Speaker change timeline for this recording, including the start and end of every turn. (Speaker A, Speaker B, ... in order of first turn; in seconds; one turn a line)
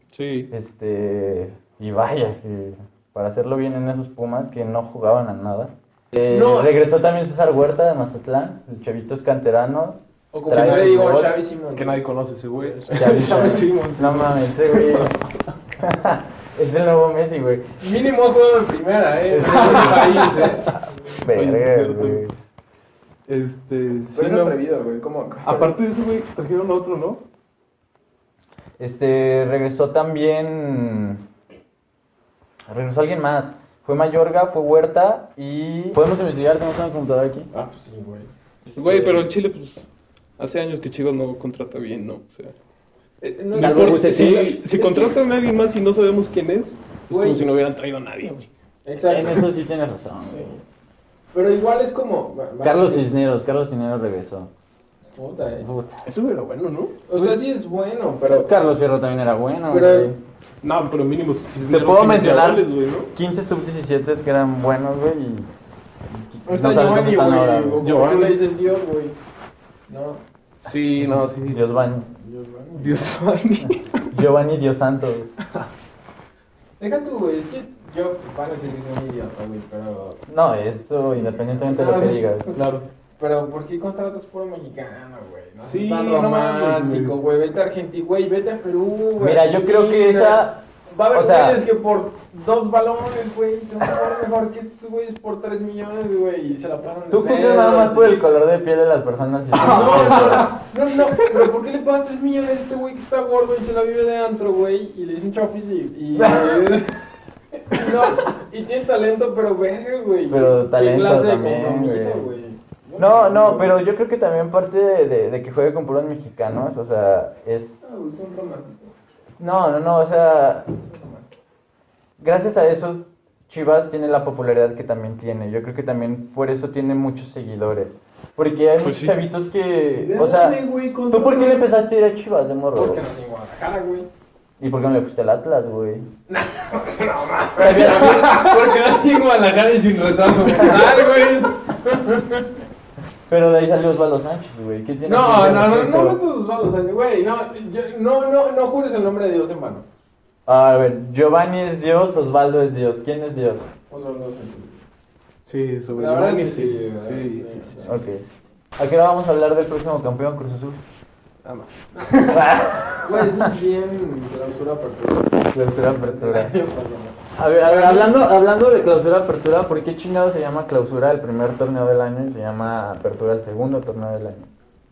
Speaker A: 0.1-0.5
Speaker B: 0.5-11.3
Speaker C: 6.2-6.7
Speaker A: 10.3-10.9
Speaker C: 10.3-12.0
Speaker A: 11.7-15.3
Speaker C: 12.6-13.2
Speaker B: 12.9-15.2
Speaker B: 15.8-17.7
Speaker C: 17.8-20.7
Speaker B: 19.3-20.1
Speaker A: 19.4-20.7
Speaker B: 21.1-22.3
Speaker A: 21.3-22.2
Speaker A: 23.3-24.6
Speaker C: 24.1-25.7
Speaker A: 25.4-27.2
Speaker B: 28.8-31.2
Speaker B: 32.7-37.5
Speaker C: 37.5-39.2
Speaker A: 38.7-42.5
Speaker C: 43.2-45.2
Speaker A: 43.5-48.5
Speaker B: 43.6-44.4
Speaker C: 47.1-47.5
Speaker C: 48.8-49.5
Speaker B: 49.0-50.5
Speaker C: 50.3-50.6
Speaker C: 51.3-53.1
Speaker B: 52.6-54.5
Speaker C: 55.1-55.7
Speaker B: 55.6-56.0
Speaker A: 56.0-57.3
Speaker C: 57.1-58.5
Speaker B: 58.3-60.2
Speaker C: 59.7-60.1
Speaker A: 60.6-63.1
Speaker B: 61.7-65.5
Speaker B: 66.1-67.8
Speaker C: 66.4-69.2
Speaker A: 67.8-68.4
Speaker C: 69.9-70.2
Speaker A: 70.6-71.6
Speaker B: 71.4-72.1
Speaker C: 72.1-73.1
Speaker A: 72.8-74.1
Speaker B: 74.1-75.3
Speaker C: 76.8-80.2
Speaker B: 80.3-82.5
Speaker C: 81.2-82.3
Speaker A: 82.5-82.8
Speaker C: 83.2-98.2
Speaker A: 85.6-87.1
Speaker B: 89.2-90.6
Speaker B: 91.1-91.6
Speaker B: 97.1-100.5
Speaker C: 99.5-107.0
Speaker A: 99.7-100.4
Speaker C: 107.5-113.8
Speaker B: 110.3-112.2
Speaker B: 113.0-117.8
Speaker C: 117.8-118.9
Speaker B: 119.4-120.8
Speaker C: 120.8-121.2
Speaker B: 122.2-133.0
Speaker A: 128.8-129.2
Speaker C: 130.0-131.7
Speaker C: 132.7-134.1
Speaker B: 134.6-136.1
Speaker C: 136.3-142.6
Speaker B: 137.6-138.5
Speaker B: 143.3-146.2
Speaker C: 145.0-149.8
Speaker B: 150.5-153.7
Speaker C: 153.9-154.9
Speaker A: 155.4-158.1
Speaker C: 155.9-158.2
Speaker B: 157.8-158.2
Speaker B: 158.8-160.8
Speaker A: 161.4-162.8
Speaker C: 162.0-162.3
Speaker B: 162.3-163.4
Speaker C: 163.0-168.2
Speaker B: 165.5-166.5
Speaker B: 167.3-174.5